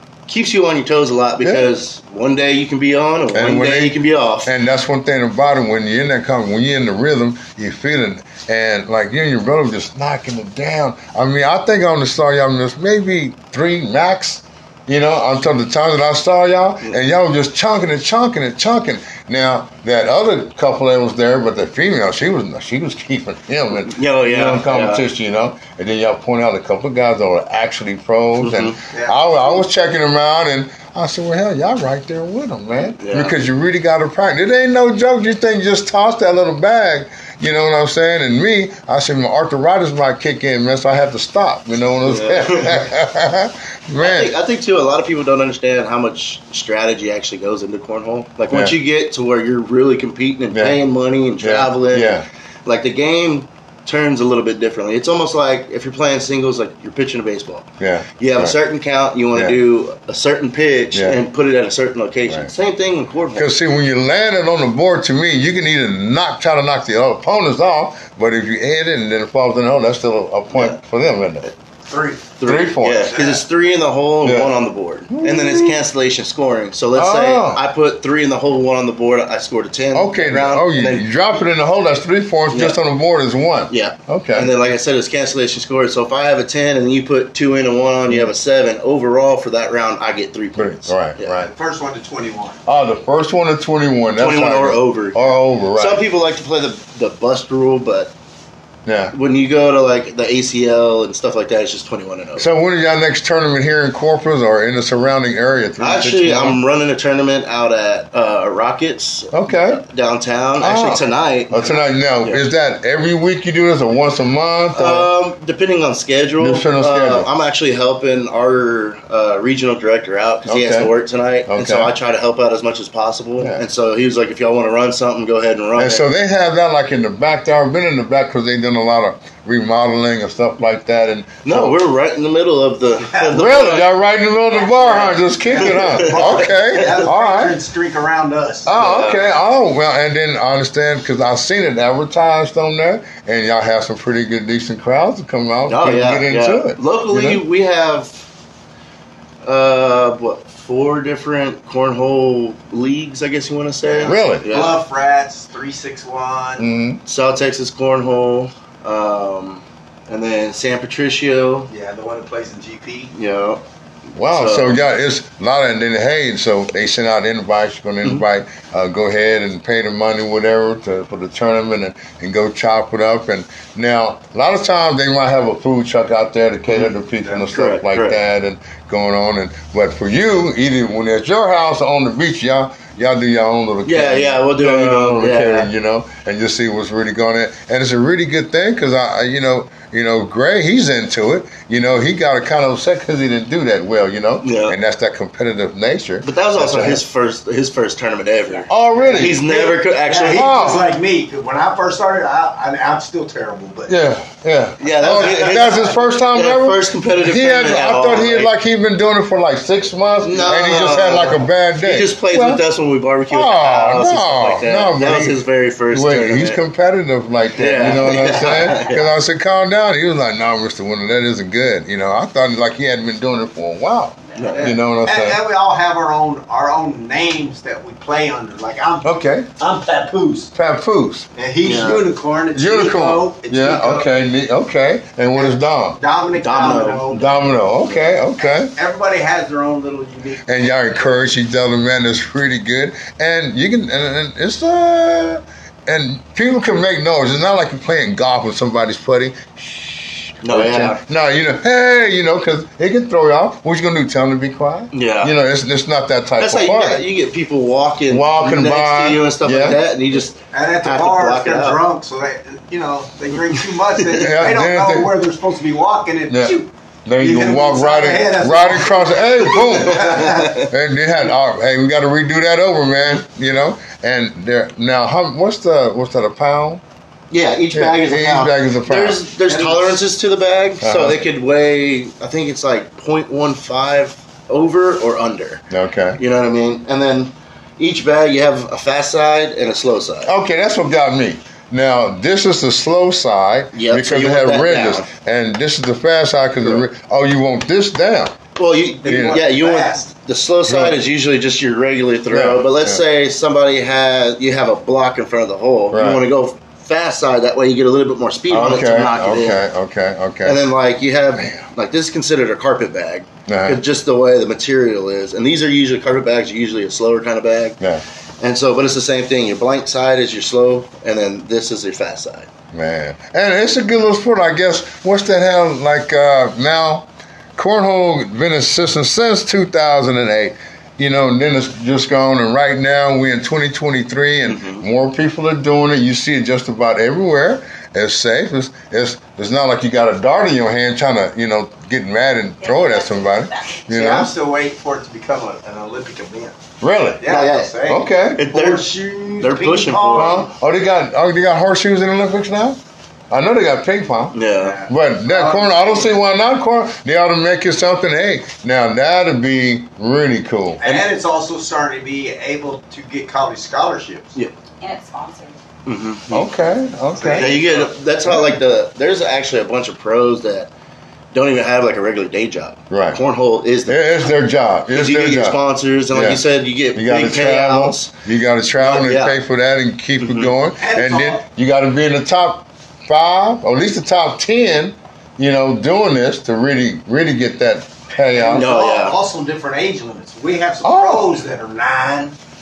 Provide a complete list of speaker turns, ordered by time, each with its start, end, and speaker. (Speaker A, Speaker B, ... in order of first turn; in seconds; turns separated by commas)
Speaker A: 0.3-4.5, Speaker B: 1.4-1.7, Speaker B: 3.3-44.3, Speaker A: 23.8-25.0, Speaker A: 28.4-28.8, Speaker C: 28.9-29.6, Speaker A: 33.0-33.4, Speaker A: 42.0-42.9, Speaker A: 44.0-52.1, Speaker B: 48.5-48.8, Speaker B: 50.5-50.8, Speaker B: 51.4-52.2, Speaker A: 52.6-63.5, Speaker B: 57.8-58.5, Speaker B: 59.3-59.6, Speaker B: 60.9-61.2, Speaker B: 63.3-71.5, Speaker A: 70.5-70.8, Speaker C: 71.9-72.3, Speaker A: 72.4-81.1, Speaker B: 72.4-73.1, Speaker C: 73.0-73.4, Speaker B: 74.2-75.8, Speaker B: 76.9-77.6, Speaker B: 79.9-84.5, Speaker A: 82.5-82.8, Speaker A: 83.7-91.4, Speaker B: 90.5-91.5, Speaker C: 91.3-92.6, Speaker B: 92.7-96.0, Speaker A: 94.2-95.2, Speaker A: 95.8-98.1, Speaker B: 98.8-99.1, Speaker A: 99.1-102.5, Speaker B: 102.4-106.6, Speaker A: 105.8-112.4, Speaker B: 109.3-109.8, Speaker B: 110.6-115.1, Speaker A: 114.7-126.0, Speaker B: 116.4-117.3, Speaker B: 120.5-120.9, Speaker B: 121.5-121.9, Speaker B: 125.8-131.8, Speaker A: 131.4-133.9, Speaker B: 133.3-137.6, Speaker A: 134.7-137.1, Speaker C: 134.8-138.7, Speaker B: 138.6-147.4, Speaker A: 138.7-139.3, Speaker A: 145.7-148.2, Speaker A: 149.4-154.8, Speaker C: 153.8-156.7, Speaker B: 154.0-154.5, Speaker B: 156.6-157.0, Speaker A: 157.1-161.7, Speaker C: 161.7-163.1, Speaker A: 163.1-163.6, Speaker B: 164.1-197.0, Speaker A: 164.2-164.7, Speaker A: 176.7-178.2, Speaker A: 183.8-185.7, Speaker A: 194.4-194.8, Speaker A: 196.2-200.8, Speaker B: 198.7-199.4, Speaker C: 199.1-203.9, Speaker B: 200.3-200.9, Speaker B: 203.9-212.6, Speaker A: 204.8-208.5, Speaker C: 205.0-206.1, Speaker A: 210.2-216.6, Speaker B: 213.3-215.4, Speaker B: 215.9-225.4, Speaker A: 217.5-219.1, Speaker A: 224.3-224.7, Speaker C: 224.5-230.5, Speaker B: 229.0-229.5, Speaker B: 230.5-231.3, Speaker C: 231.3-234.1, Speaker A: 231.6-232.0, Speaker B: 232.5-236.0, Speaker C: 235.3-237.6, Speaker A: 236.3-237.1, Speaker B: 237.1-238.7, Speaker A: 237.8-238.1, Speaker C: 238.4-240.5, Speaker B: 240.4-257.0, Speaker A: 250.4-251.0, Speaker A: 254.9-255.3, Speaker A: 256.4-261.8, Speaker B: 258.1-259.8, Speaker C: 260.5-270.6, Speaker A: 263.9-264.3, Speaker B: 264.2-265.1, Speaker B: 266.3-276.8, Speaker A: 269.8-270.7, Speaker A: 277.3-285.6, Speaker B: 277.7-279.2, Speaker C: 279.5-280.0, Speaker B: 280.8-281.2, Speaker B: 285.7-286.2, Speaker A: 286.2-290.3, Speaker B: 290.2-298.4, Speaker A: 293.7-295.1, Speaker A: 298.6-309.6, Speaker C: 299.0-300.0, Speaker B: 299.1-299.4, Speaker B: 300.7-301.0, Speaker B: 302.3-303.0, Speaker B: 305.9-306.2, Speaker B: 308.5-310.7, Speaker A: 310.4-317.8, Speaker B: 311.4-311.6, Speaker B: 313.5-313.8, Speaker A: 318.4-322.5, Speaker B: 322.7-344.3, Speaker A: 334.5-334.8, Speaker D: 342.6-343.9, Speaker C: 343.9-346.6, Speaker B: 346.8-347.2, Speaker C: 347.2-350.5, Speaker A: 347.2-347.7, Speaker B: 347.9-348.4, Speaker A: 348.4-348.9, Speaker A: 349.4-350.5, Speaker B: 350.1-352.8, Speaker B: 353.3-360.8, Speaker A: 354.3-354.8, Speaker C: 354.6-356.1, Speaker C: 360.8-364.3, Speaker D: 364.8-365.6, Speaker A: 365.9-366.5, Speaker B: 366.3-367.5, Speaker C: 367.1-368.0, Speaker A: 367.3-370.7, Speaker A: 371.3-374.0, Speaker B: 372.9-373.2, Speaker B: 373.9-375.6, Speaker A: 374.9-378.1, Speaker B: 376.1-376.4, Speaker B: 376.9-388.7, Speaker A: 378.8-379.4, Speaker A: 380.2-380.5, Speaker C: 380.8-381.4, Speaker C: 388.2-392.4, Speaker A: 388.5-389.2, Speaker B: 390.8-391.4